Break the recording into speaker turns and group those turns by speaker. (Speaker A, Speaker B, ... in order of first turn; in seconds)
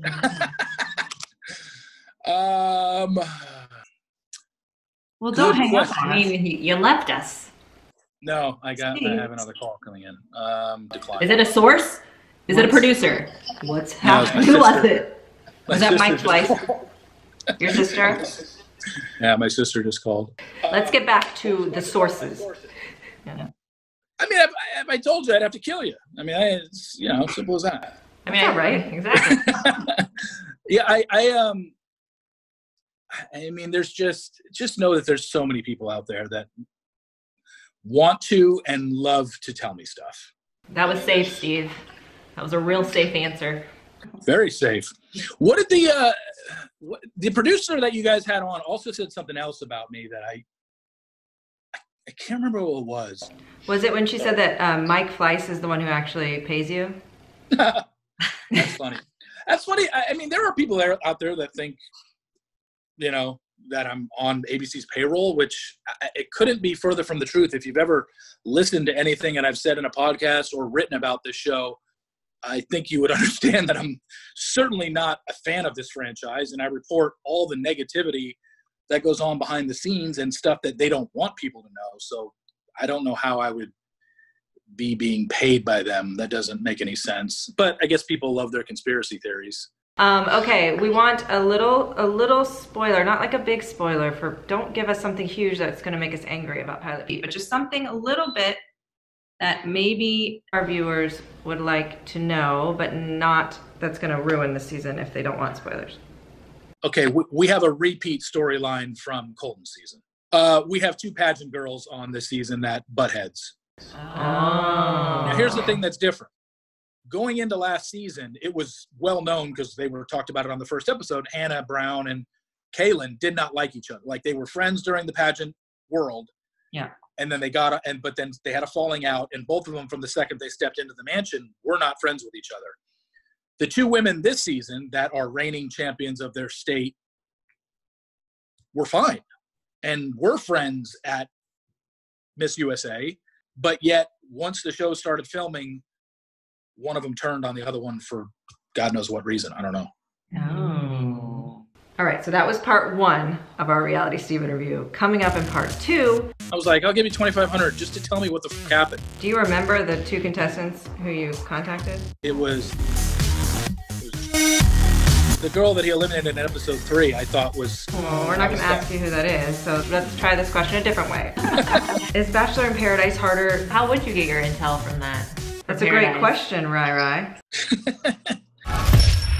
Speaker A: 0.2-0.9, 2.2-3.7, 5.3-6.2, 8.2-11.5, 14.0-14.9, 15.7-16.8, 19.2-22.7, 24.2-27.9, 29.1-30.1, 30.7-31.7, 33.1-36.5, 37.8-40.3, 40.9-41.2, 44.2-50.4, 52.0-53.3, 57.5-57.8, 58.5-61.8, 63.0-71.8, 72.4-78.4, 78.9-83.7, 84.7-89.7, 106.8-113.5, 115.2-116.3, 117.1-126.3, 127.2-132.8, 133.6-136.9, 138.7-139.2, 139.8-141.3, 142.4-145.8, 146.8-149.9, 156.5-159.0, 162.2-162.7, 164.0-164.3, 165.4-168.9, 177.7-178.3
Speaker B: 5.2-6.3, 8.9-9.3, 12.5-12.8, 15.7-16.6, 17.6-18.3, 20.7-22.4, 28.3-28.8, 53.7-57.0, 90.0-98.6, 99.4-106.0, 114.1-115.6, 150.3-151.2, 152.0-156.3, 159.2-162.1, 167.9-173.7, 175.7-177.3
Speaker C: 5.8-7.5, 11.2-15.1, 28.2-29.5, 40.7-41.8, 42.4-43.6, 114.0-115.6, 150.3-151.6, 173.7-176.3